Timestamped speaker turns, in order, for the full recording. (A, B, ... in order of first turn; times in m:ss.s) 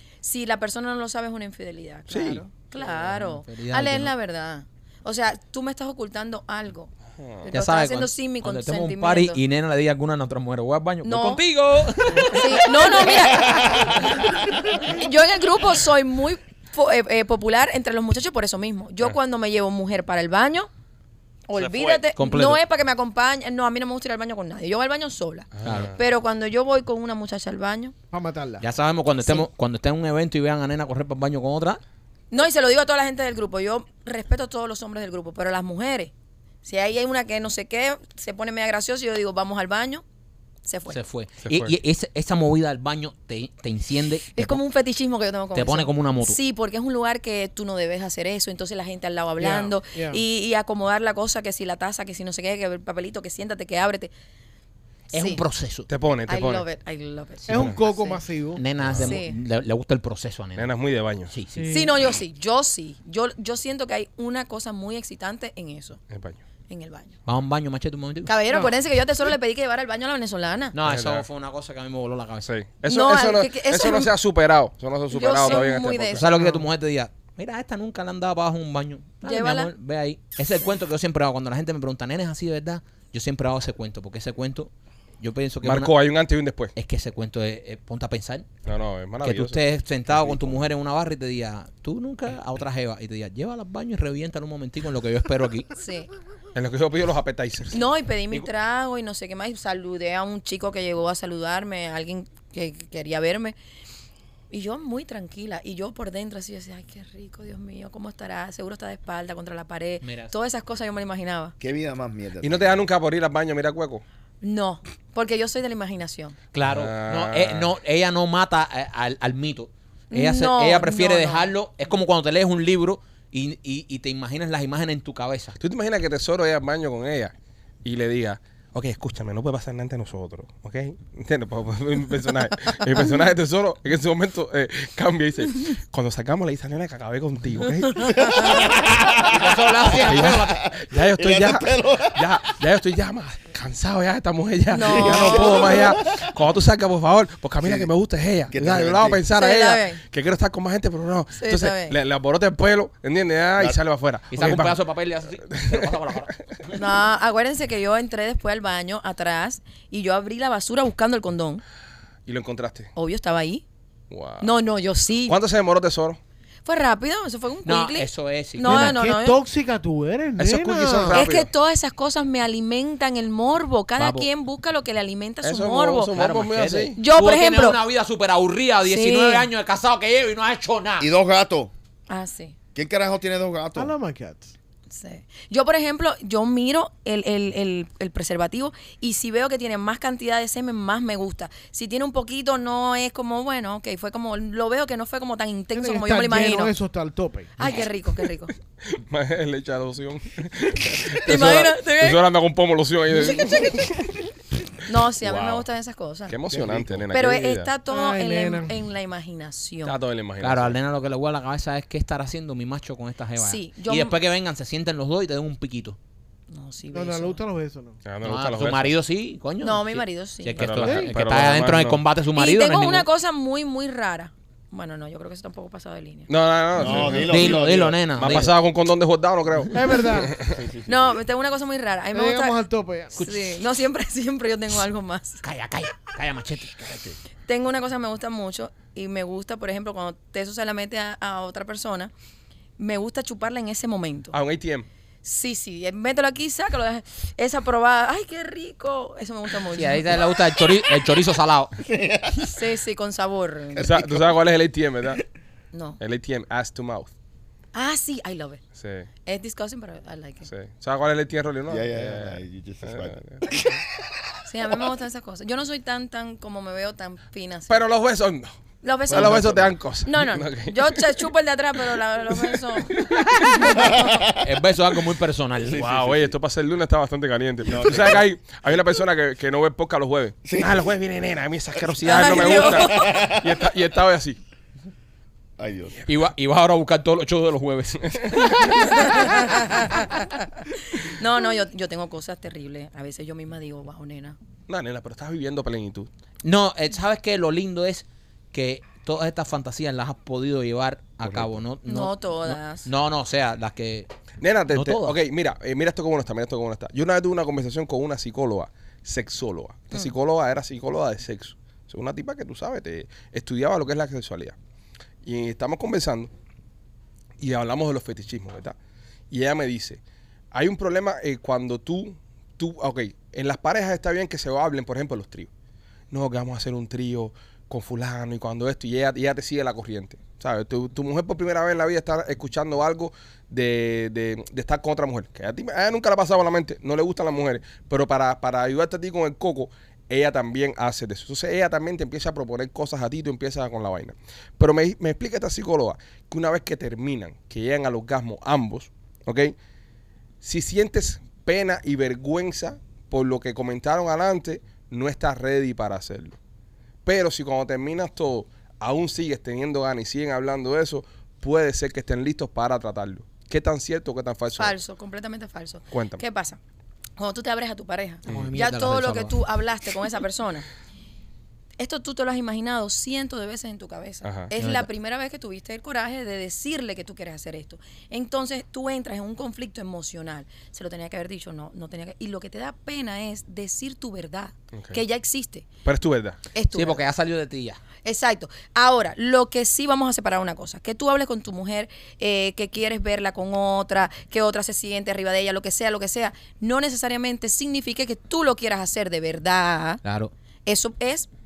0:00.2-0:06.9 A
0:02.1-0:02.4 B
0:02.8-0:04.1 C
0:07.2-0:07.5 B
0:07.4-0:09.4 A
0:07.5-0:13.8 C
0:11.0-0:11.4 A
0:12.3-0:14.2 A
0:14.7-0:20.7 A
0:21.5-0:27.9 A
0:21.6-0:21.9 B
0:22.1-0:22.6 C
0:25.5-0:26.0 B
0:25.6-0:25.9 C
0:28.1-0:28.6 D
0:28.6-0:31.8 C
0:32.3-0:36.1 A
0:36.6-0:40.0 A
0:40.6-0:41.0 A
0:40.9-0:44.6 C
0:41.4-0:41.7 B
0:44.3-0:54.1 A
0:45.5-0:46.4 C
0:49.4-0:50.2 D
0:55.1-0:55.4 A
0:55.1-0:55.9 C
0:55.9-0:56.6 B
0:56.3-0:58.2 A
0:57.5-0:58.6 D
0:58.6-1:00.7 C
0:58.8-0:59.2 B
0:59.0-0:59.4 A
1:00.6-1:01.3 B
1:01.3-1:01.7 C
1:01.5-1:01.9 D
1:01.7-1:06.0 A
1:06.1-1:06.4 B
1:06.7-1:07.2 A
1:07.2-1:08.3 C
1:08.2-1:10.7 A
1:10.7-1:12.5 C
1:10.8-1:11.2 B
1:12.4-1:16.2 B
1:12.9-1:14.1 A
1:15.1-1:16.3 A
1:16.1-1:25.9 C
1:16.3-1:16.6 D
1:19.2-1:19.7 A
1:25.6-1:26.7 B
1:26.7-1:28.5 C
1:28.6-1:29.6 B
1:29.2-1:35.7 C
1:35.8-1:36.1 A
1:36.5-1:37.8 B
1:37.7-1:43.5 A
1:44.5-1:51.5 A
1:50.0-1:50.3 C
1:51.6-1:52.8 E
1:52.4-1:54.0 B
1:54.4-1:56.4 A
1:56.5-2:05.6 C
1:56.6-1:57.7 B
2:00.1-2:01.5 A
2:05.6-2:18.4 B
2:18.0-2:22.3 E
2:19.2-2:20.6 C
2:20.0-2:34.8 B
2:24.7-2:25.9 A
2:24.8-2:26.3 E
2:27.6-2:27.9 E
2:28.5-2:29.2 E
2:29.3-2:30.0 A
2:31.3-2:32.0 A
2:34.3-2:36.3 C
2:35.5-2:35.9 B
2:36.7-2:41.6 A
2:42.2-2:42.9 B
2:43.0-2:43.6 A
2:44.1-2:44.5 B
2:44.4-2:45.4 A
2:45.3-2:46.2 B
2:46.6-2:49.4 A
2:47.6-2:49.0 C
2:48.6-2:51.2 D
2:50.4-2:51.5 B
2:51.1-2:56.1 A
2:54.0-2:54.3 C
2:55.4-2:57.0 B
2:56.1-3:01.1 C
2:57.0-2:57.8 A
2:58.8-2:59.5 A
3:01.0-3:01.7 E
3:02.1-3:02.6 A
3:02.7-3:03.9 E
3:03.8-3:04.5 D
3:04.9-3:16.7 A
3:15.8-3:17.5 D
3:17.6-3:18.5 A
3:18.9-3:24.0 B
3:21.2-3:22.2 A
3:23.2-3:23.7 A
3:24.8-3:26.4 A
3:25.2-3:25.6 B
3:26.3-3:27.7 B
3:26.5-3:27.1 E
3:27.1-3:30.0 A
3:27.9-3:28.7 D
3:29.8-3:30.8 B
3:30.4-3:36.0 C
3:33.4-3:34.2 A
3:36.5-3:37.4 A
3:36.9-3:38.0 D
3:38.0-3:38.9 B
3:38.2-3:43.1 C
3:39.6-3:40.7 A
3:40.6-3:42.0 B
3:40.8-3:41.1 D
3:42.3-3:46.3 A
3:46.3-3:47.6 B
3:46.7-3:48.0 E
3:47.2-3:48.5 C
3:48.2-3:50.6 B
3:49.7-3:50.3 D
3:50.4-3:51.2 E
3:50.9-3:52.6 A
3:52.1-3:53.2 D
3:53.2-3:55.4 A
3:55.4-3:57.2 C
3:57.4-4:02.1 A
4:02.8-4:04.4 A
4:04.3-4:04.9 B
4:05.2-4:10.2 A
4:09.7-4:11.7 C
4:11.8-4:12.6 E
4:12.5-4:14.0 A
4:13.8-4:14.4 E
4:13.8-4:15.2 B
4:15.7-4:16.0 A
4:16.0-4:17.1 B
4:17.7-4:18.6 A
4:18.8-4:19.1 B
4:19.2-4:20.5 A
4:20.5-4:23.6 B
4:21.7-4:23.8 E
4:24.5-4:27.9 A
4:27.7-4:28.5 B
4:28.8-4:34.2 A
4:29.1-4:29.8 E
4:29.1-4:31.0 B
4:32.3-4:33.7 B
4:33.7-4:34.4 E
4:34.4-4:35.8 C
4:35.6-4:36.3 E
4:35.8-4:44.4 B
4:37.6-4:38.2 E
4:40.4-4:40.8 E
4:42.0-4:43.1 A
4:42.1-4:43.6 E
4:45.6-4:46.0 E
4:46.1-4:48.1 C
4:48.0-4:48.9 B
4:48.7-4:54.4 A
4:54.7-4:56.1 B
4:56.4-5:04.1 C
5:01.2-5:01.5 E
5:01.9-5:02.9 A
5:04.4-5:14.6 B
5:04.7-5:05.2 C
5:15.2-5:16.3 B
5:17.4-5:18.8 B
5:19.3-5:20.0 B
5:20.5-5:25.5 B
5:26.1-5:49.5 B
5:50.4-5:56.4 B
5:57.0-6:04.8 B
6:04.6-6:06.6 A
6:05.9-6:06.2 B
6:07.2-6:10.7 A
6:08.3-6:09.4 C
6:11.8-6:25.7 A
6:14.2-6:14.5 B
6:14.6-6:14.9 C
6:24.7-6:25.0 B
6:25.8-6:26.4 B
6:26.5-6:27.0 A
6:26.7-6:27.8 C
6:28.0-6:40.0 A
6:40.0-6:40.3 C
6:40.6-6:41.3 A